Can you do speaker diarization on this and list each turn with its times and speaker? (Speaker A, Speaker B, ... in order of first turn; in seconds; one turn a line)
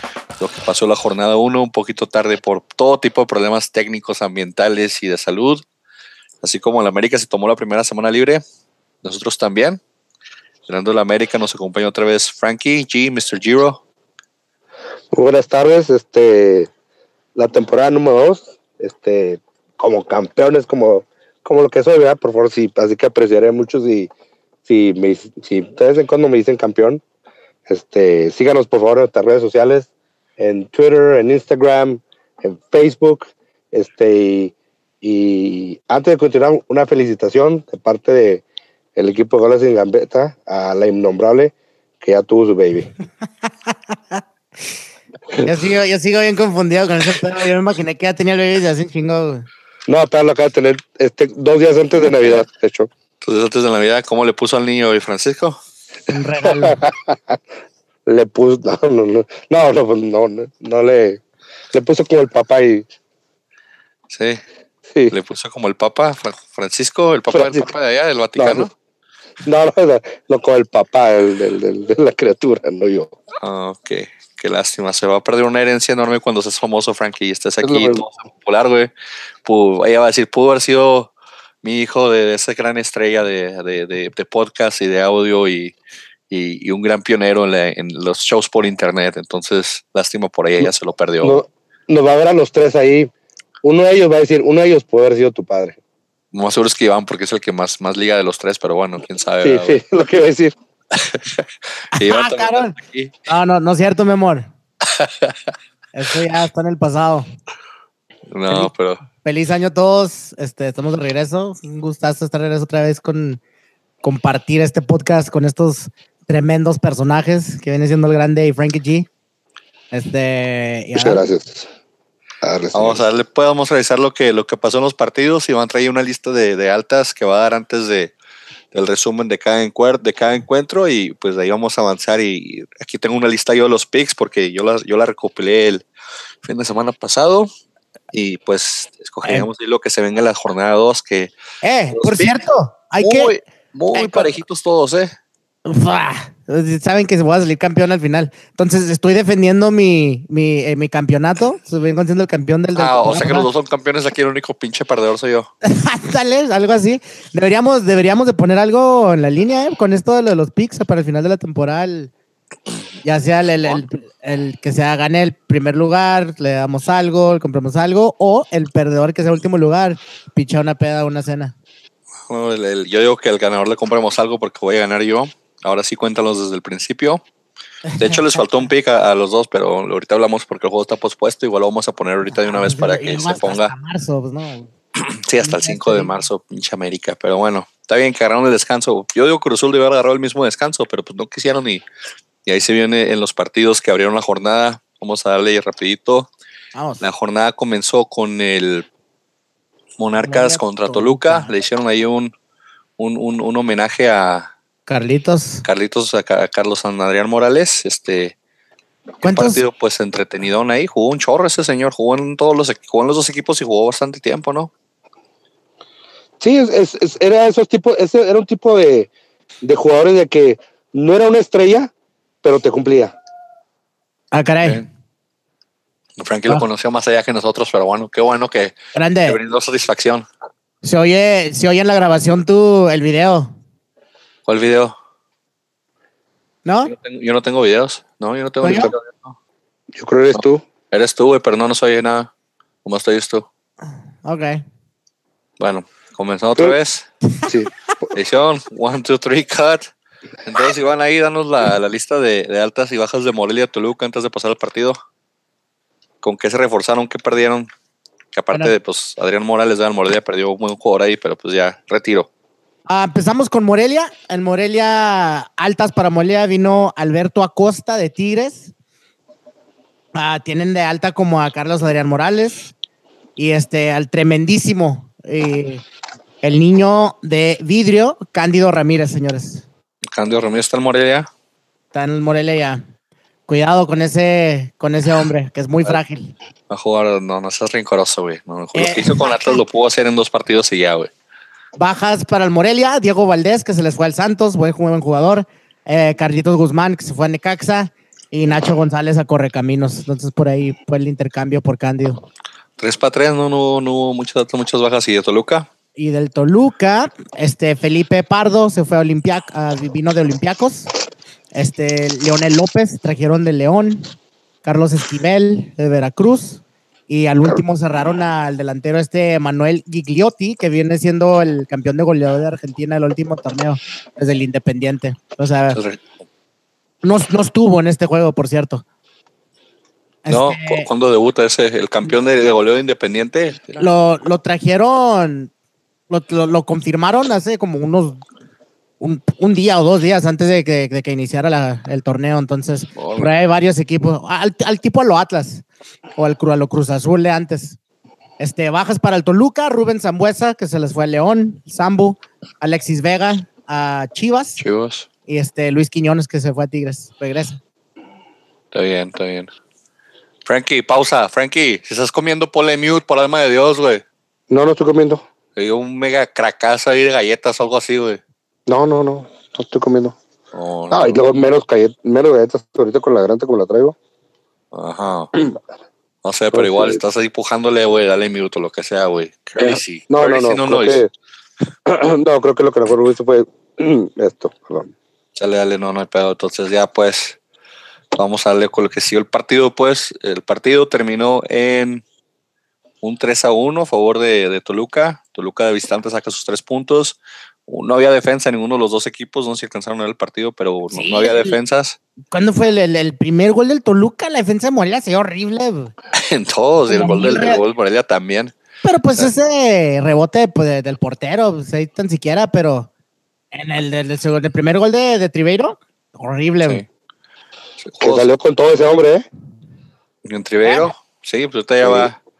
Speaker A: 0.4-5.6
Speaker A: 6.4-8.4
Speaker A: 9.0-9.8
Speaker A: 10.7-13.8
Speaker B: 15.1-16.7
Speaker B: 17.4-24.1
Speaker B: 24.6-27.0
Speaker B: 27.7-38.4
Speaker B: 39.0-42.9
Speaker C: 43.7-44.2
Speaker C: 45.4-49.5
Speaker B: 49.9-52.9
Speaker A: 53.2-55.6
Speaker C: 56.1-56.8
Speaker B: 56.5-57.4
Speaker B: 58.0-61.2
Speaker B: 61.7-62.9
Speaker A: 64.1-64.4
Speaker A: 65.1-68.7
Speaker B: 67.3-67.7
Speaker B: 68.4-68.7
Speaker B: 69.4-73.2
Speaker A: 73.4-78.9
Speaker B: 77.6-78.0
Speaker A: 79.4-85.8
Speaker A: 86.3-91.4
Speaker B: 91.2-93.1
Speaker B: 93.6-95.8
Speaker A: 96.3-99.8
Speaker B: 99.4-100.5
Speaker A: 100.9-103.2
Speaker C: 102.0-104.5
Speaker A: 104.8-105.5
Speaker C: 105.9-107.3
Speaker A: 108.3-109.0
Speaker C: 109.2-113.4
Speaker C: 114.0-119.1
Speaker C: 119.9-121.2
Speaker B: 120.9-121.7
Speaker B: 122.4-123.0
Speaker A: 122.7-128.1
Speaker A: 128.7-135.8
Speaker A: 136.4-137.5
Speaker A: 138.1-141.3
Speaker C: 141.6-143.3
Speaker A: 141.9-142.3
Speaker A: 143.0-145.1
Speaker C: 143.9-144.3
Speaker C: 145.6-153.5
Speaker A: 152.8-155.5
Speaker C: 155.6-162.1
Speaker C: 163.0-171.5
Speaker A: 172.3-177.2
Speaker C: 177.9-178.4
Speaker A: 178.0-183.7
Speaker C: 182.3-184.7
Speaker A: 185.0-191.8
Speaker C: 185.4-186.1
Speaker A: 192.4-196.3
Speaker C: 196.7-197.0
Speaker A: 197.0-198.8
Speaker A: 200.0-202.3
Speaker C: 200.2-201.5
Speaker A: 203.0-204.5
Speaker C: 204.9-205.6
Speaker A: 205.6-208.3
Speaker C: 209.2-209.6
Speaker A: 209.2-214.7
Speaker B: 216.4-219.1
Speaker B: 219.6-221.9
Speaker B: 222.4-223.1
Speaker C: 224.3-224.8
Speaker A: 226.2-230.2
Speaker C: 228.9-229.4
Speaker C: 230.8-233.5
Speaker A: 234.4-234.9
Speaker C: 236.6-236.9
Speaker A: 236.8-239.3
Speaker C: 238.6-238.9
Speaker B: 239.9-240.6
Speaker A: 240.3-242.3
Speaker A: 242.8-243.5
Speaker C: 244.2-244.6
Speaker A: 245.6-247.1
Speaker A: 248.1-249.9
Speaker A: 250.4-255.0
Speaker A: 256.2-257.7
Speaker A: 258.3-262.3
Speaker C: 262.9-268.7
Speaker C: 270.1-272.7
Speaker C: 273.4-275.8
Speaker C: 276.4-279.6
Speaker A: 280.1-281.3
Speaker C: 281.9-282.8
Speaker C: 283.5-286.3
Speaker A: 286.7-291.1
Speaker C: 288.7-289.6
Speaker C: 291.8-302.2
Speaker A: 302.8-305.7
Speaker C: 305.9-310.9
Speaker C: 311.5-314.1
Speaker C: 314.6-325.8
Speaker A: 325.7-326.0
Speaker C: 327.0-328.8
Speaker C: 330.2-330.9
Speaker A: 330.3-333.8
Speaker C: 333.8-335.5
Speaker C: 336.1-338.2
Speaker C: 339.0-345.6
Speaker A: 342.9-343.3
Speaker C: 346.1-347.8
Speaker C: 348.4-354.6
Speaker A: 354.6-355.1
Speaker C: 355.3-357.6
Speaker A: 358.7-359.5
Speaker A: 360.4-364.0
Speaker B: 364.5-365.2
Speaker A: 365.6-368.2
Speaker B: 368.7-370.2
Speaker A: 370.5-371.2
Speaker B: 370.9-373.9
Speaker A: 374.7-375.3
Speaker A: 376.2-381.0
Speaker B: 376.5-377.0
Speaker B: 379.6-381.1
Speaker B: 381.9-384.9
Speaker A: 385.3-387.4
Speaker A: 388.1-392.0
Speaker A: 393.0-402.0
Speaker C: 400.9-401.5
Speaker C: 402.3-405.9
Speaker A: 406.1-408.5
Speaker C: 406.9-407.6
Speaker C: 408.8-412.9
Speaker C: 413.5-416.8
Speaker A: 417.8-418.3
Speaker B: 418.0-419.2
Speaker A: 420.2-422.2
Speaker C: 420.6-420.9
Speaker B: 421.8-422.1